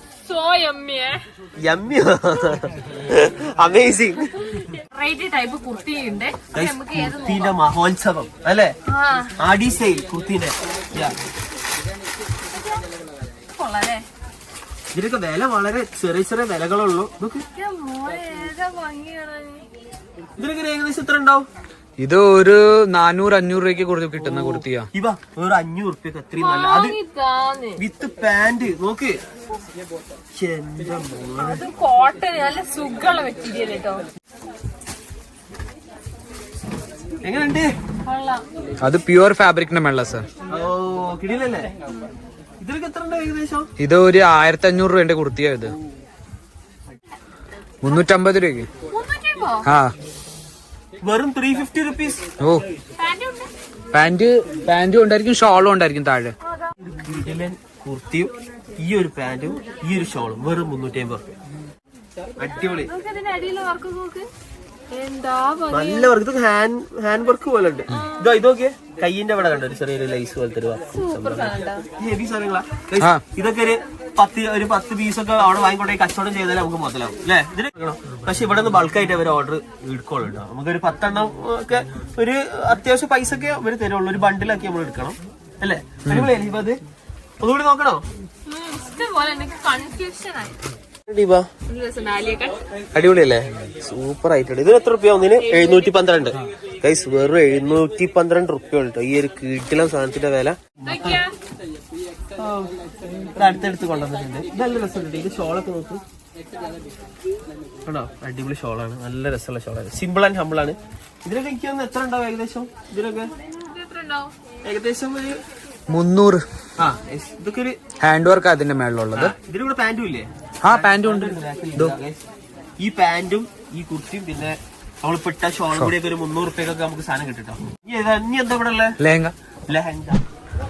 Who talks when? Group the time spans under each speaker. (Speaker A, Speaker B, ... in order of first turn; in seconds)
Speaker A: 0.2-1.2, 4.3-7.5, 8.9-9.3, 13.6-14.0, 17.5-19.7, 26.4-27.8, 31.4-34.0, 38.0-38.4, 48.9-49.7, 53.0-53.5, 62.6-64.3, 64.9-66.1, 67.9-68.3, 70.9-71.9, 88.5-90.6, 91.7-92.6, 95.3-96.0, 100.8-101.3, 113.5-114.3
Speaker B: 1.6-4.6, 6.5-8.7, 9.4-11.1, 14.9-17.4, 20.4-21.5, 24.2-27.0, 27.8-29.2, 30.3-31.6, 37.2-37.7, 40.5-41.7, 42.6-43.7, 51.0-52.2, 56.8-61.3, 62.4-62.9, 65.7-86.8, 87.4-88.0, 91.1-91.5, 92.9-101.2, 102.4-102.7, 103.3-106.0, 107.8-113.3, 114.6-115.4, 116.8-117.8, 119.1-122.2, 122.8-129.0, 129.7-130.2
Speaker C: 22.0-24.9, 38.8-40.3, 43.8-45.8, 47.8-48.7, 49.6-49.9, 52.4-52.6, 53.9-56.3, 86.0-86.3, 115.9-116.4, 118.0-119.4, 120.6-121.9, 129.0-129.3